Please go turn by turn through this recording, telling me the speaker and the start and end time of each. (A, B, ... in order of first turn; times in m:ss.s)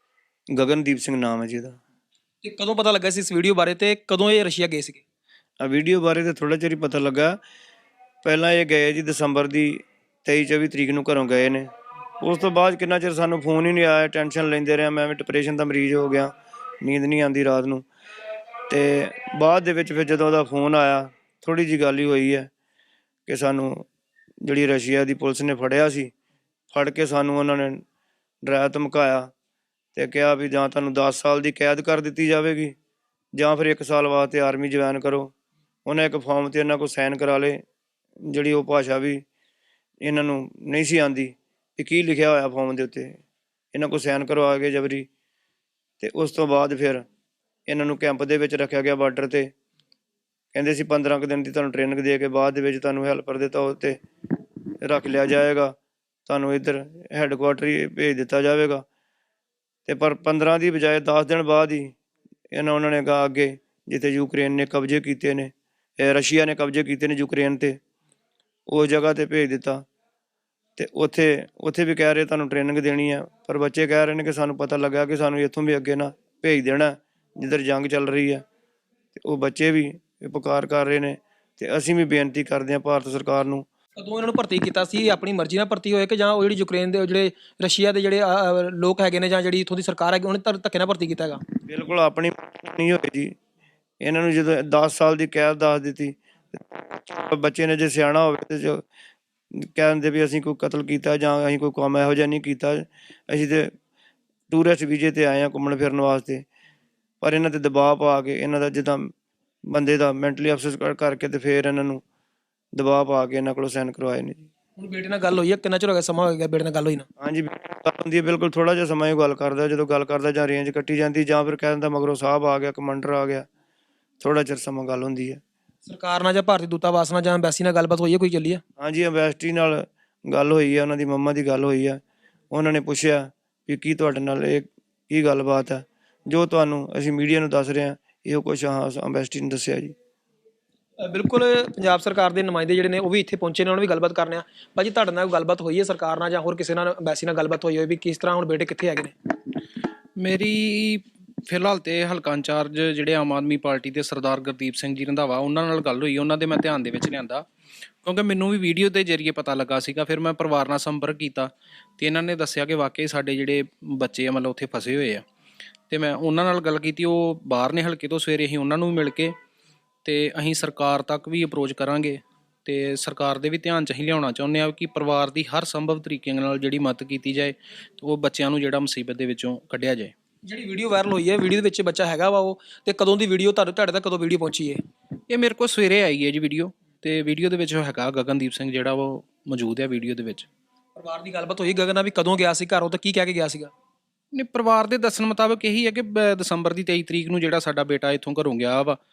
0:00.5-0:01.8 A
0:02.4-0:05.0 B
0:05.6-0:07.4 A
0:08.2-0:17.9 A
0:18.7-0:22.5 A
0:23.3-0:23.9 A
0:24.4-0:26.1 A
0:26.7-0:27.8 A
0:28.4-0:29.3 A
0:30.0-0:32.8 A
0:33.4-0:35.3 A
0:35.9-0:37.6 A
0:38.2-0:39.2 A
0:40.0-0:43.2 A
0:43.7-0:45.1 A
0:46.0-0:47.1 A
0:47.7-0:49.5 A
0:50.5-0:54.0 A
0:54.8-0:55.8 A
0:56.3-0:58.8 A
0:59.9-1:02.0 A
1:02.5-1:07.8 A
1:08.7-1:09.9 A
1:10.8-1:18.4 A
1:19.2-1:23.7 A
1:24.0-1:31.4 B
1:31.6-1:33.4 A
1:34.0-1:38.8 A
1:39.6-1:43.7 A
1:44.5-1:46.4 A
1:47.2-1:49.1 A
1:49.7-1:52.0 A
1:52.8-1:54.5 A
1:54.8-1:57.1 B
1:57.2-2:03.5 A
2:04.2-2:05.4 A
2:05.9-2:08.6 B
2:08.8-2:20.0 A
2:21.0-2:29.1 B
2:30.2-2:37.5 C
2:38.0-2:45.3 C
2:45.9-2:49.4 C
2:50.0-3:00.1 C
3:00.5-3:04.8 B
3:05.3-3:10.5 C
3:11.0-3:13.7 B
3:14.3-3:19.0 C